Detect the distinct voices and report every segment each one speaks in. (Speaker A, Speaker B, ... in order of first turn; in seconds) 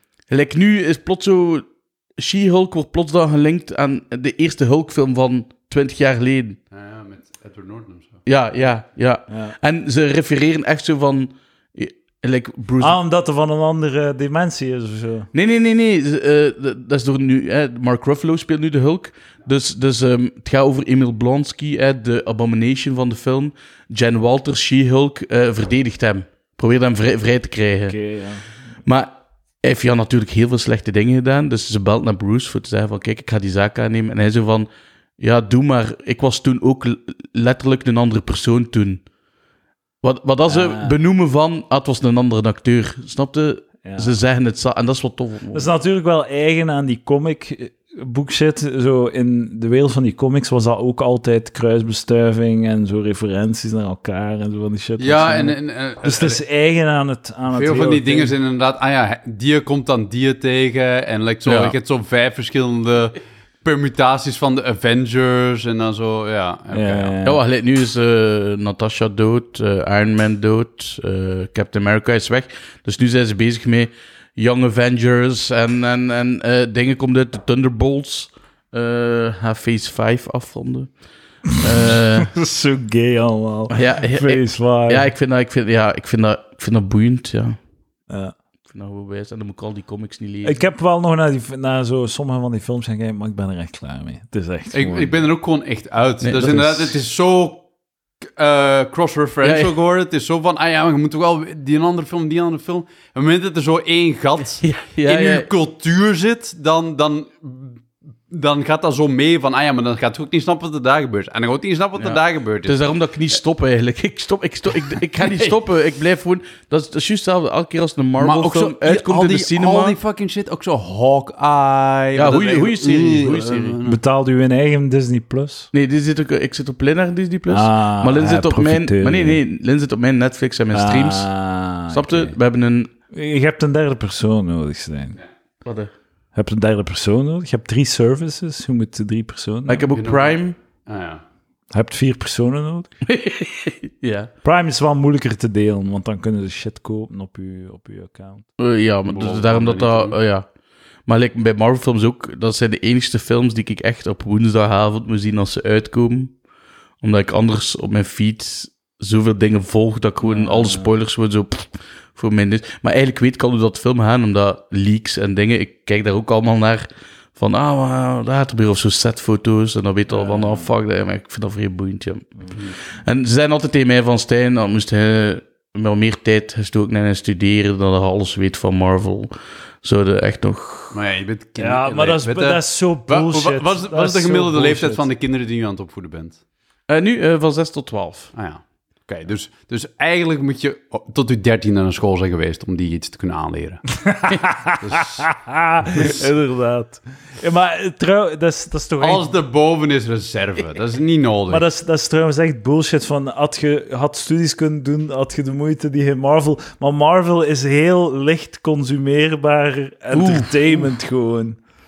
Speaker A: 0.3-6.6, 8.2-12.9, 15.3-28.0, 28.8-29.1, 29.6-34.7, 35.2-39.0, 40.0-45.7, 61.4-61.7, 67.2-82.3, 83.7-87.5, 88.7-90.6, 96.2-97.0, 99.4-99.7, 104.6-105.5, 112.0-120.0, 122.2-123.8, 125.7-131.3, 131.9-132.9, 135.6-135.9, 139.7-140.6, 143.0-144.3, 148.6-150.4, 151.1-156.4, 157.0-179.3, 179.8-181.0, 186.9-188.3, 210.1-210.9
Speaker B: 6.7-8.2, 55.0-56.4, 57.5-67.1, 94.7-97.6, 98.3-112.8, 118.2-124.0, 139.9-141.2, 149.1-150.2, 180.9-186.4, 188.3-193.8, 194.8-195.3, 199.0-201.6
Speaker C: 9.3-9.5, 12.8-15.3, 27.9-28.4, 40.5-40.9, 43.8-44.1, 45.5-58.3, 66.7-67.4, 82.2-85.1, 88.1-88.3, 90.4-95.2, 123.8-125.7, 127.5-129.4, 130.7-132.3, 133.1-135.2, 136.3-139.9, 141.7-142.9, 144.4-148.4, 160.2-160.9, 170.1-170.7, 181.6-185.1, 194.0-199.3, 201.5-211.6